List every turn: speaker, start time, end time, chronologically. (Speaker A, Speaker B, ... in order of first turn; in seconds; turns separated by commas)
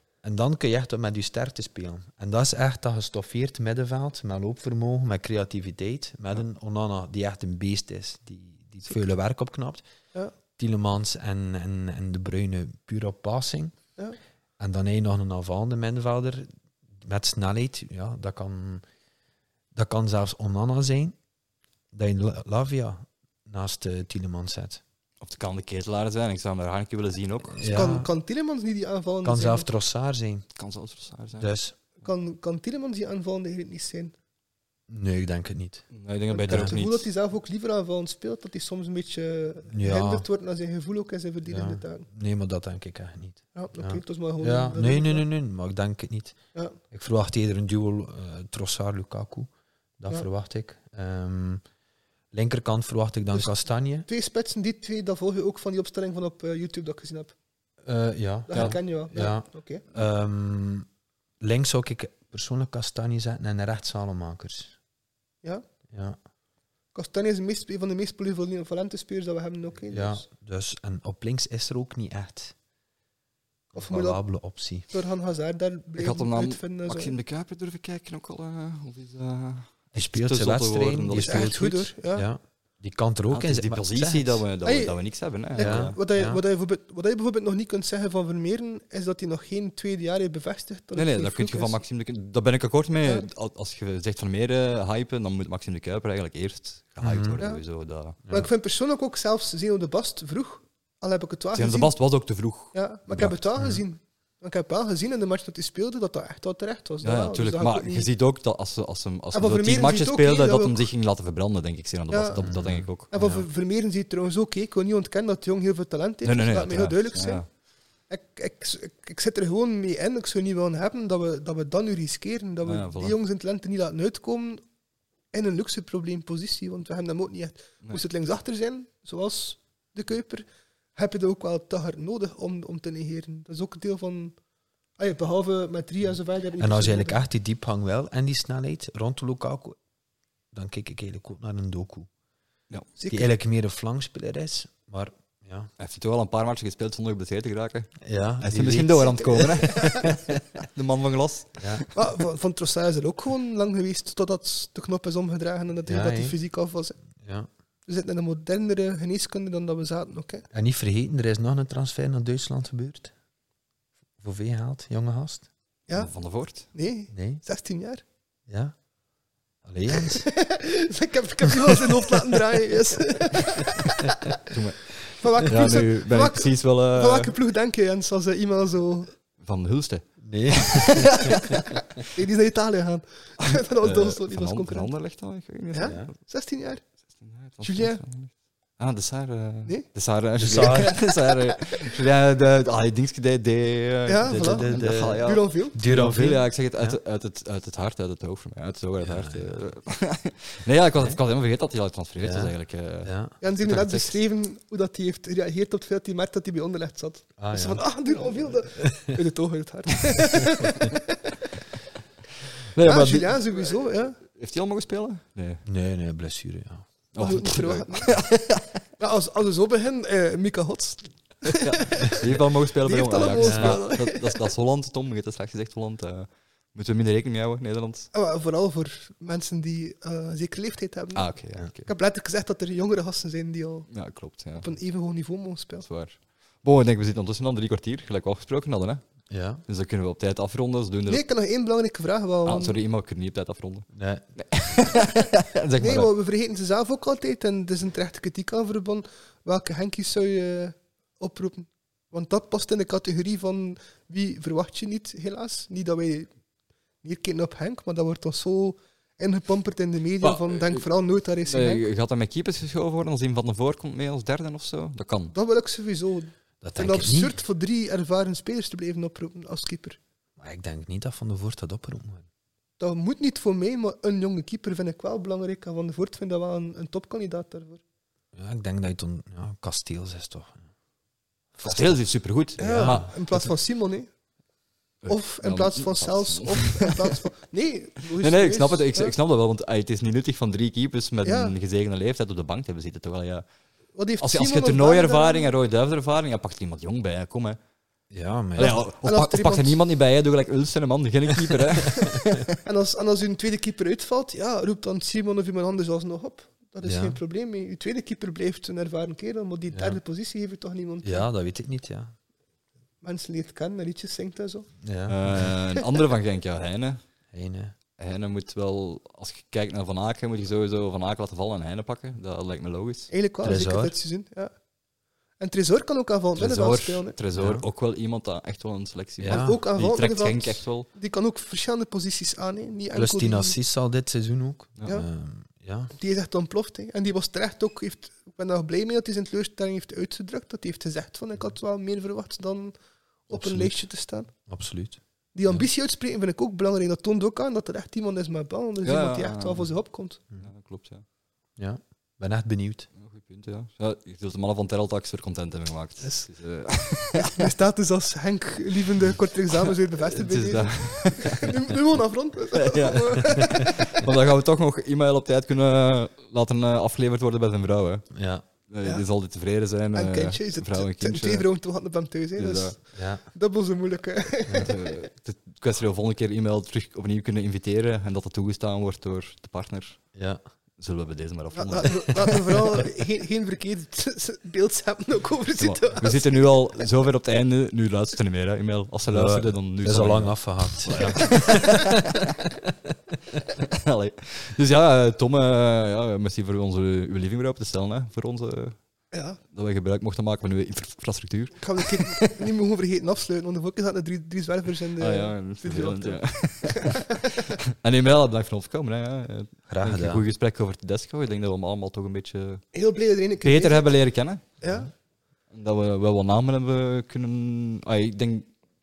Speaker A: 0.2-9.8, Speaker A: 10.6-13.7, Speaker A: 14.6-16.5, Speaker A: 17.0-18.8, Speaker A: 19.7-21.2, Speaker A: 21.9-24.8, Speaker B: 25.2-28.0, Speaker A: 27.6-28.1, Speaker C: 27.7-29.7, Speaker A: 29.2-30.5, Speaker B: 30.6-31.5, Speaker A: 31.4-31.8, Speaker C: 32.0-34.1, Speaker A: 34.9-35.9, Speaker B: 35.9-37.1, Speaker C: 36.3-42.1, Speaker A: 36.5-36.8, Speaker A: 39.7-40.3, Speaker A: 41.5-46.4, Speaker C: 43.5-45.3, Speaker C: 46.5-46.8, Speaker A: 46.9-51.6, Speaker A: 52.3-54.1, Speaker C: 54.1-57.3, Speaker A: 57.9-60.9, Speaker C: 58.5-59.8, Speaker B: 58.5-58.8, Speaker A: 61.4-64.8, Speaker A: 65.9-66.2, Speaker C: 66.9-70.3, Speaker A: 69.9-72.5, Speaker A: 73.7-74.9, Speaker C: 73.8-74.2, Speaker C: 74.9-77.1, Speaker B: 76.0-81.8, Speaker A: 79.9-84.4, Speaker C: 81.1-82.3, Speaker B: 83.3-86.0, Speaker C: 84.6-85.0, Speaker C: 85.5-91.8, Speaker A: 85.6-86.4, Speaker B: 91.0-98.2, Speaker A: 97.0-97.4, Speaker C: 98.3-101.9, Speaker B: 101.5-103.4, Speaker C: 102.7-108.1, Speaker A: 103.2-103.8, Speaker B: 107.0-113.1, Speaker C: 109.3-110.9, Speaker C: 112.1-112.5, Speaker A: 112.4-113.5, Speaker C: 113.1-117.4, Speaker B: 116.2-117.4, Speaker C: 118.1-124.6, Speaker B: 122.7-123.2, Speaker C: 125.3-134.4, Speaker C: 135.0-137.2, Speaker A: 136.6-139.8, Speaker A: 140.5-142.1, Speaker C: 143.0-143.3, Speaker A: 143.1-145.7, Speaker B: 145.8-151.9, Speaker A: 148.0-149.6, Speaker C: 149.1-150.1, Speaker A: 151.6-151.8, Speaker C: 151.9-157.0, Speaker A: 155.9-156.4, Speaker A: 157.2-157.5, Speaker C: 157.9-160.5, Speaker A: 160.5-163.1, Speaker A: 164.2-165.5, Speaker B: 165.9-166.7, Speaker C: 166.7-168.0, Speaker A: 167.1-167.4, Speaker A: 168.5-168.7, Speaker A: 169.6-170.3, Speaker C: 169.9-174.5, Speaker B: 174.5-177.3, Speaker C: 175.1-179.1, Speaker B: 179.4-181.5, Speaker A: 180.2-181.6, Speaker C: 181.0-184.9, Speaker B: 183.4-186.2, Speaker C: 185.7-186.8, Speaker A: 185.8-186.1, Speaker B: 187.2-204.2, Speaker C: 187.6-188.0, Speaker A: 190.4-191.0, Speaker C: 190.5-191.9, Speaker C: 194.1-195.8, Speaker A: 194.3-197.0, Speaker A: 199.0-199.6, Speaker A: 202.2-203.3, Speaker C: 203.4-211.4, Speaker A: 207.4-207.8, Speaker A: 208.8-209.2, Speaker B: 212.7-213.4, Speaker C: 212.8-214.2, Speaker B: 214.3-215.6, Speaker A: 215.7-216.9, Speaker B: 217.1-218.8, Speaker C: 217.2-218.1, Speaker C: 219.0-224.5, Speaker B: 221.6-228.1, Speaker A: 223.4-223.8, Speaker C: 228.1-231.3, Speaker B: 231.2-231.9, Speaker C: 231.8-233.9, Speaker B: 233.9-234.7, Speaker C: 234.6-235.9, Speaker B: 235.8-239.0, Speaker A: 239.3-239.6, Speaker B: 239.7-241.2, Speaker C: 241.1-242.8, Speaker B: 242.5-246.1, Speaker A: 243.9-244.2, Speaker C: 245.8-256.3, Speaker C: 257.0-261.9, Speaker B: 260.2-260.9, Speaker B: 261.4-265.4, Speaker C: 265.3-270.0, Speaker A: 266.6-267.4, Speaker A: 270.4-272.2, Speaker C: 272.8-277.8, Speaker A: 278.3-280.6, Speaker A: 281.6-281.9, Speaker B: 281.6-283.5, Speaker C: 282.6-284.1, Speaker A: 282.7-283.0, Speaker B: 285.0-287.1, Speaker C: 285.1-289.1, Speaker B: 288.2-293.4, Speaker C: 291.2-291.5, Speaker C: 294.0-295.5, Speaker B: 294.2-297.6, Speaker A: 298.1-298.8, Speaker B: 298.6-302.6, Speaker C: 298.6-299.8, Speaker C: 302.6-311.3, Speaker A: 306.8-307.2, Speaker A: 309.7-310.0, Speaker A: 311.0-312.1, Speaker C: 313.0-314.7, Speaker A: 314.8-315.5, Speaker B: 315.1-317.0, Speaker A: 317.3-317.8, Speaker B: 318.0-323.1, Speaker C: 323.1-324.5, Speaker A: 323.4-323.9, Speaker C: 325.4-327.2, Speaker B: 326.4-330.9, Speaker A: 327.4-327.7, Speaker A: 329.2-329.6, Speaker C: 329.3-333.6, Speaker A: 332.9-335.9, Speaker C: 335.9-342.7, Speaker C: 343.3-344.3, Speaker A: 343.3-343.9, Speaker A: 344.5-345.0, Speaker C: 345.3-350.2, Speaker B: 348.8-349.7, Speaker B: 350.4-351.0, Speaker A: 351.6-352.9, Speaker B: 353.0-357.5, Speaker C: 356.0-356.3, Speaker C: 357.2-364.1, Speaker B: 359.5-361.7, Speaker B: 362.5-368.1, Speaker A: 368.1-368.4, Speaker B: 368.7-371.5, Speaker C: 369.9-375.0, Speaker B: 372.4-372.8, Speaker A: 372.9-373.2, Speaker B: 374.6-380.0, Speaker A: 380.1-380.4, Speaker B: 380.8-382.8, Speaker C: 381.6-386.9, Speaker B: 385.6-392.5, Speaker A: 389.1-391.9, Speaker C: 391.0-391.5, Speaker B: 393.5-398.8, Speaker C: 399.1-399.4, Speaker B: 399.5-402.3, Speaker C: 401.6-407.5, Speaker B: 405.0-412.7, Speaker A: 409.7-410.2, Speaker C: 412.7-413.9, Speaker B: 413.4-414.4, Speaker C: 414.6-414.9, Speaker B: 415.5-418.5